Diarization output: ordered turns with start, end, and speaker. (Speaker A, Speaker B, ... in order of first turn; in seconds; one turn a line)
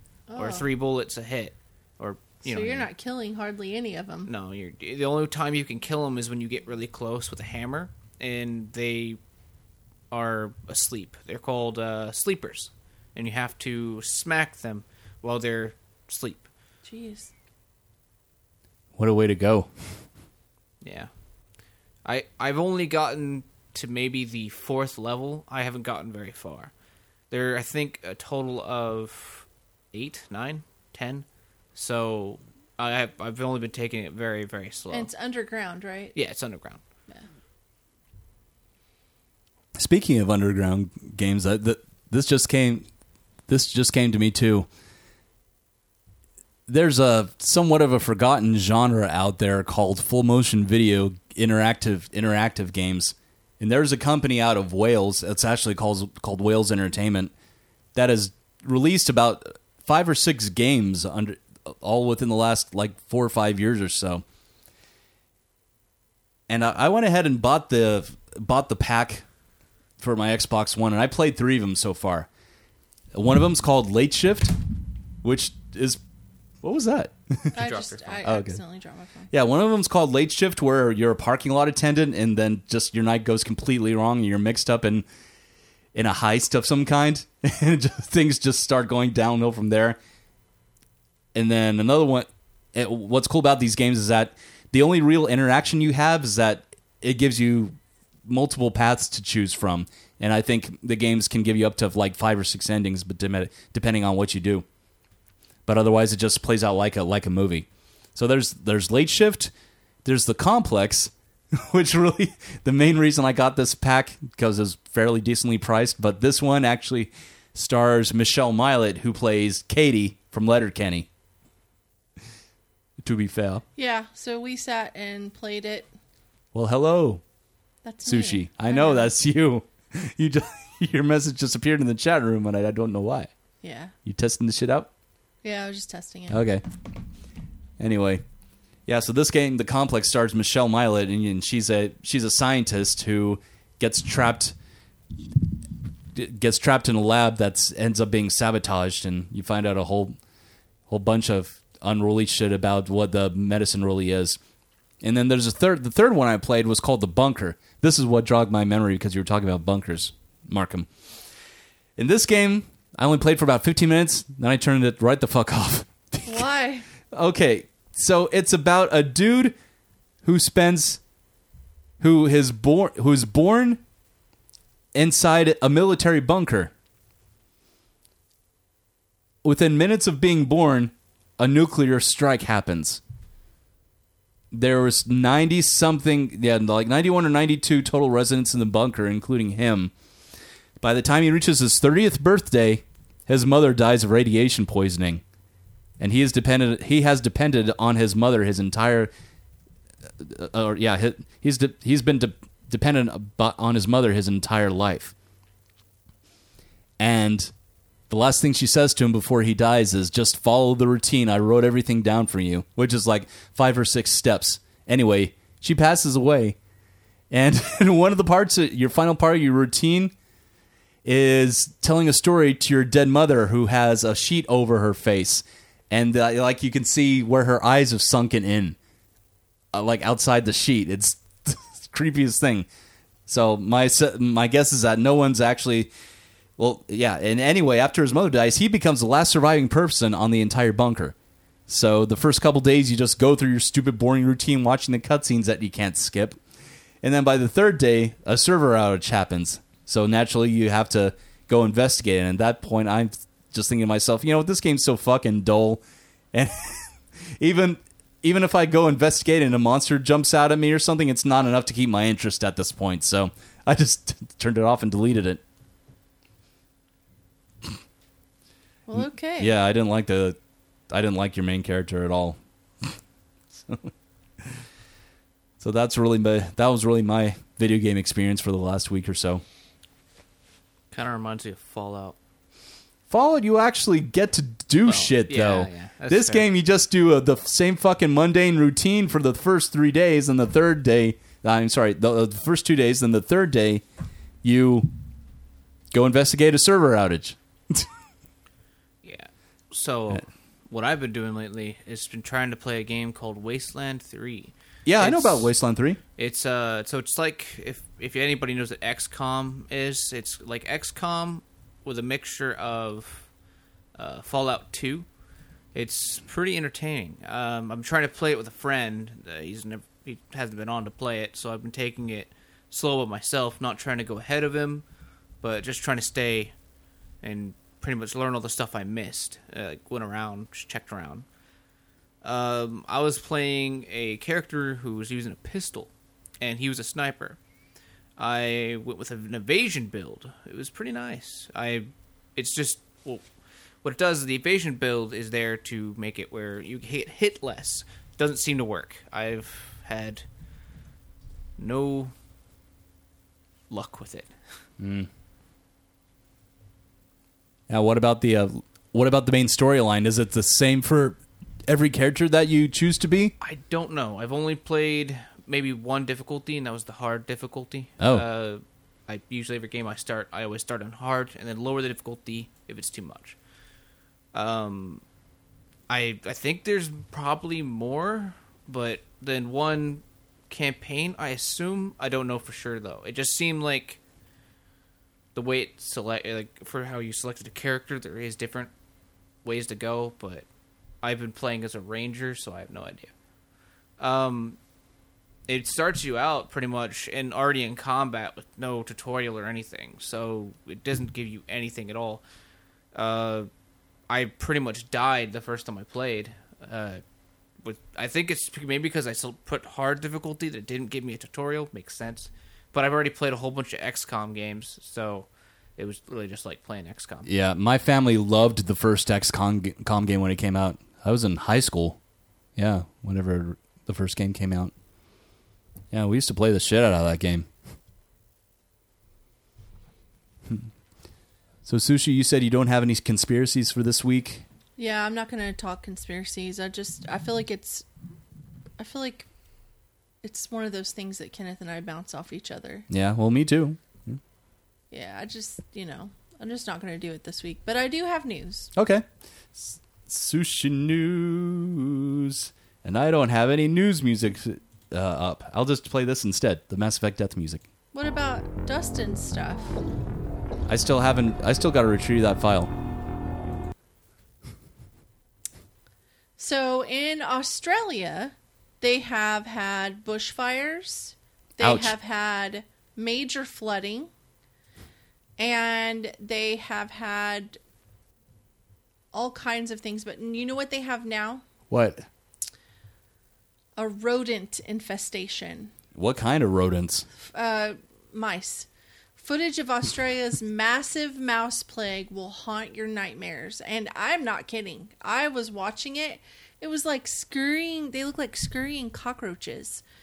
Speaker A: 0.3-0.7
Speaker B: 0.3-2.9
Speaker A: 2.4-4.3
Speaker B: 4.2-9.2
Speaker B: 10.1-16.5
Speaker A: 16.8-17.3
Speaker C: 18.9-19.7
Speaker B: 20.8-21.1
Speaker B: 22.0-26.7
Speaker B: 27.3-35.1
Speaker A: 34.9-36.1
Speaker B: 36.1-36.8
Speaker C: 39.8-42.9
Speaker C: 43.5-44.7
Speaker C: 46.7-57.3
Speaker C: 57.9-64.2
Speaker C: 66.5-69.2
Speaker C: 70.0-72.3
Speaker C: 73.1-74.6
Speaker C: 75.2-76.0
Speaker C: 76.6-77.5
Speaker B: 77.5-78.2
Speaker A: 77.5-79.3
Speaker C: 78.2-78.6
Speaker C: 79.3-85.0
Speaker C: 85.9-90.0
Speaker C: 91.3-104.6
Speaker C: 105.7-109.5
Speaker C: 110.0-121.1
Speaker C: 123.0-123.6
Speaker A: 123.8-125.9
Speaker C: 126.5-127.2
Speaker A: 127.8-129.1
Speaker C: 128.0-133.3
Speaker A: 133.6-133.9
Speaker C: 134.0-134.9
Speaker A: 135.4-136.4
Speaker C: 136.3-136.6
Speaker C: 137.8-138.2
Speaker C: 138.9-144.5
Speaker C: 146.1-150.2
Speaker C: 150.9-154.4
Speaker C: 155.0-160.9
Speaker C: 162.0-166.5
Speaker A: 166.2-166.8
Speaker C: 167.1-169.5
Speaker C: 170.2-171.0
Speaker C: 172.0-173.8
Speaker C: 174.9-176.7
Speaker C: 179.4-183.0
Speaker C: 184.5-189.9
Speaker C: 190.8-195.2
Speaker C: 196.0-199.1
Speaker C: 200.2-205.1
Speaker C: 207.0-207.5
Speaker C: 208.1-216.6
Speaker C: 217.3-220.1
Speaker C: 221.0-228.8
Speaker C: 229.7-232.7
Speaker C: 233.3-235.9
Speaker C: 236.6-241.1
Speaker C: 241.7-246.4
Speaker C: 247.0-255.8
Speaker C: 256.3-265.4
Speaker A: 268.9-269.5
Speaker C: 268.9-270.4
Speaker C: 270.9-272.9
Speaker C: 273.5-273.9
Speaker C: 275.6-279.4
Speaker B: 280.9-282.1
Speaker C: 283.1-293.8
Speaker B: 284.9-286.4
Speaker C: 294.4-294.9
Speaker C: 295.9-297.9
Speaker B: 299.0-305.5
Speaker C: 304.9-306.0
Speaker B: 306.2-313.3
Speaker B: 313.9-315.1
Speaker B: 315.7-324.8
Speaker B: 325.4-326.5
Speaker B: 327.2-331.2
Speaker B: 332.2-337.4
Speaker B: 338.2-343.2
Speaker B: 343.8-350.2
Speaker B: 351.6-352.1
Speaker B: 353.7-354.3
Speaker C: 354.8-355.1
Speaker C: 357.7-363.3
Speaker B: 363.4-373.4
Speaker C: 368.0-368.2
Speaker B: 374.3-375.0
Speaker B: 375.9-384.0
Speaker B: 385.3-388.7
Speaker B: 389.4-390.4
Speaker B: 391.0-393.1
Speaker B: 394.0-394.6
Speaker B: 395.5-402.2
Speaker B: 402.9-403.5
Speaker B: 404.1-407.0
Speaker B: 407.6-417.3
Speaker C: 417.2-422.0
Speaker C: 422.6-424.7
Speaker C: 425.9-427.5
Speaker C: 431.6-434.4
Speaker A: 434.8-437.9
Speaker A: 438.8-439.3
Speaker A: 440.2-442.9
Speaker C: 442.9-444.2
Speaker A: 444.9-448.7
Speaker C: 448.7-457.6
Speaker A: 457.9-459.8
Speaker C: 460.7-462.7
Speaker A: 466.4-474.1
Speaker C: 471.6-471.9
Speaker A: 475.4-477.6
Speaker A: 479.1-481.4
Speaker C: 481.7-482.1
Speaker A: 483.8-485.7
Speaker C: 485.9-487.1
Speaker A: 487.2-499.8